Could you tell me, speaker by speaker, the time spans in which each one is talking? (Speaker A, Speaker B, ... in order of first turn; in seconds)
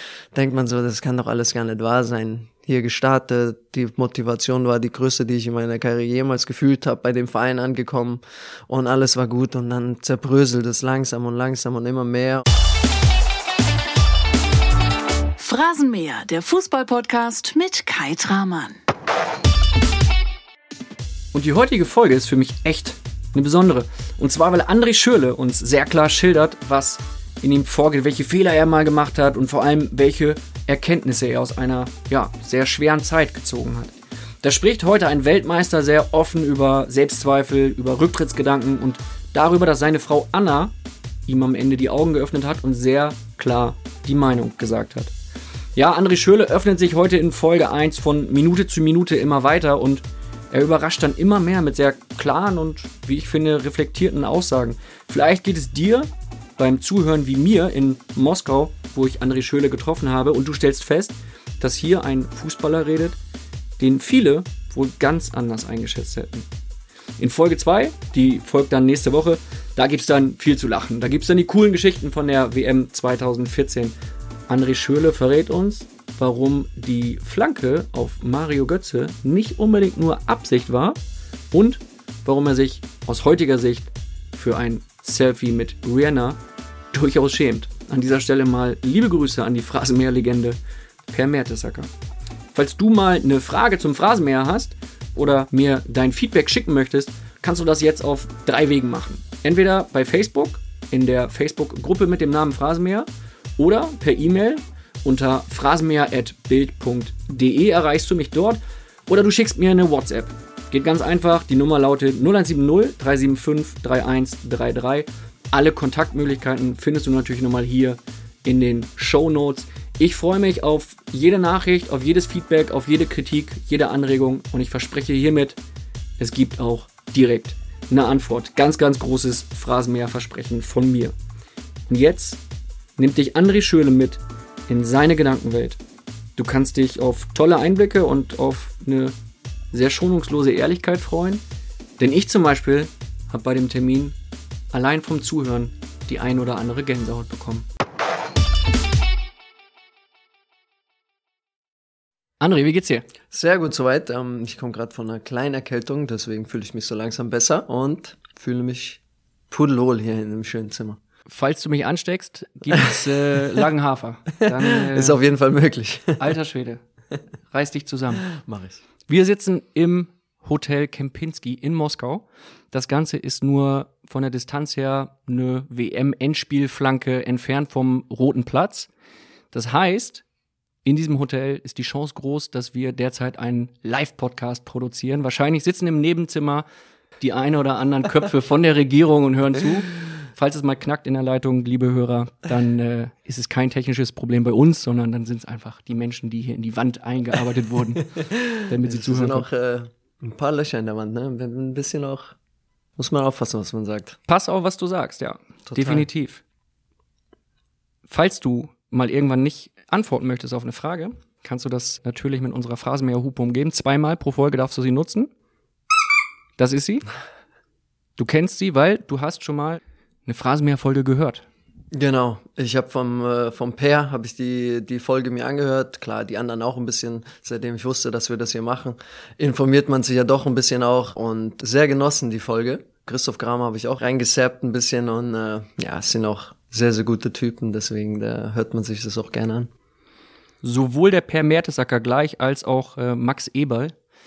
Speaker A: 0.3-12.4, 153.3-159.0, 159.5-161.0, 164.4-166.2, 168.4-168.8, 198.2-202.3, 203.0-204.2, 205.7-206.1, 221.9-239.7
Speaker B: 15.4-18.8
Speaker C: 21.3-40.7, 41.3-45.1, 45.8-63.1, 63.8-66.4, 67.2-73.9, 74.5-81.0, 81.5-86.4, 86.9-90.6, 91.1-91.9, 92.5-103.1, 103.6-125.6, 126.2-131.1, 131.9-132.4, 133.0-135.8, 136.4-139.1, 139.7-141.4, 142.0-144.1, 144.7-147.7, 152.4-153.1, 161.3-165.2, 166.2-166.8, 167.5-168.3, 169.1-178.9, 179.5-180.2, 180.8-186.6, 187.2-199.5, 204.3-206.4, 208.1-215.3, 216.6-217.1, 218.2-221.4, 240.6-243.9